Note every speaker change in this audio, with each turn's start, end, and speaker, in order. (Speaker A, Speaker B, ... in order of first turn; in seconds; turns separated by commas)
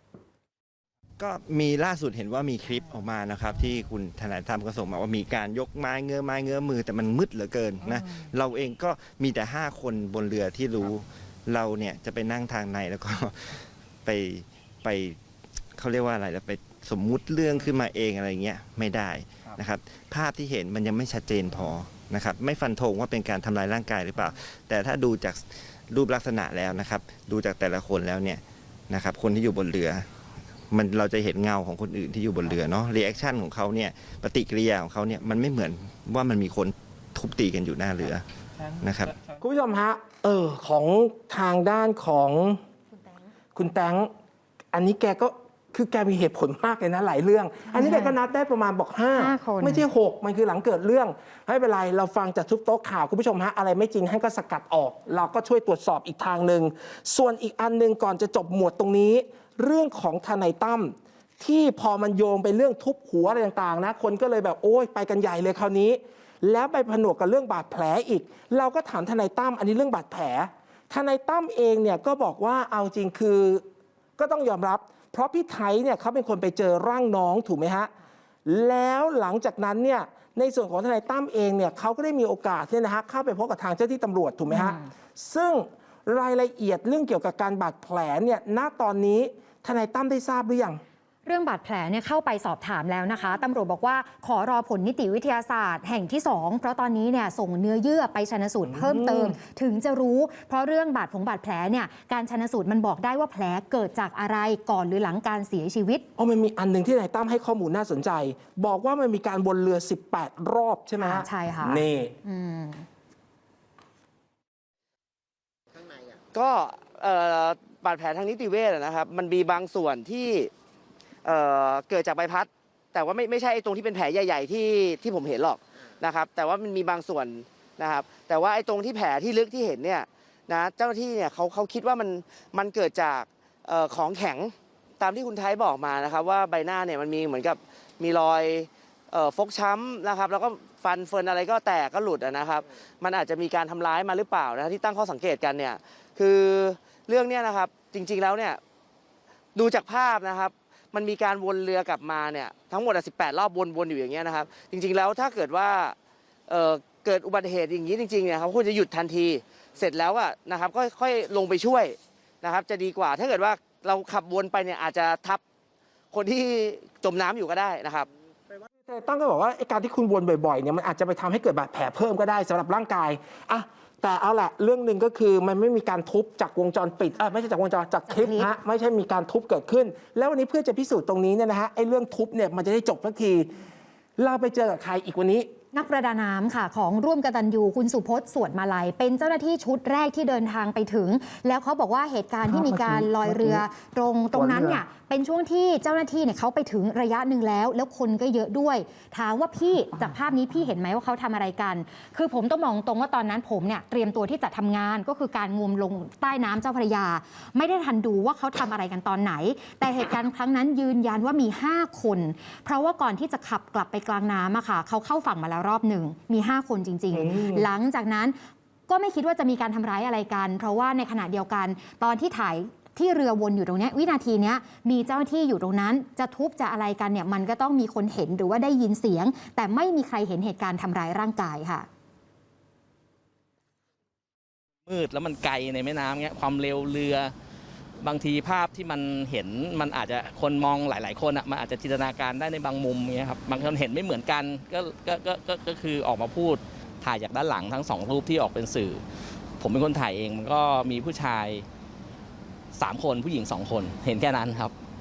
Speaker A: 1.2-15.2, Speaker A: 15.8-30.1, Speaker A: 30.7-39.2, Speaker B: 39.4-42.6, Speaker C: 42.9-43.2, Speaker B: 43.5-44.1, Speaker B: 44.7-73.6, Speaker C: 47.7-48.2, Speaker C: 49.2-49.9, Speaker B: 74.2-77.9, Speaker B: 78.5-90.8, Speaker C: 84.5-84.8, Speaker C: 91.2-106.0, Speaker B: 98.7-99.4, Speaker B: 106.2-112.1, Speaker C: 111.0-112.8, Speaker D: 116.3-120.5, Speaker D: 121.2-148.6, Speaker D: 149.5-155.9, Speaker D: 156.5-165.4, Speaker D: 166.1-168.1, Speaker B: 168.8-183.5, Speaker C: 178.1-178.5, Speaker B: 184.2-185.5, Speaker C: 185.7-218.3, Speaker B: 192.4-193.6, Speaker B: 194.3-194.8, Speaker B: 217.1-217.7, Speaker C: 218.9-231.9, Speaker E: 234.8-237.3, Speaker E: 238.0-249.0, Speaker E: 249.6-251.7, Speaker E: 252.7-254.7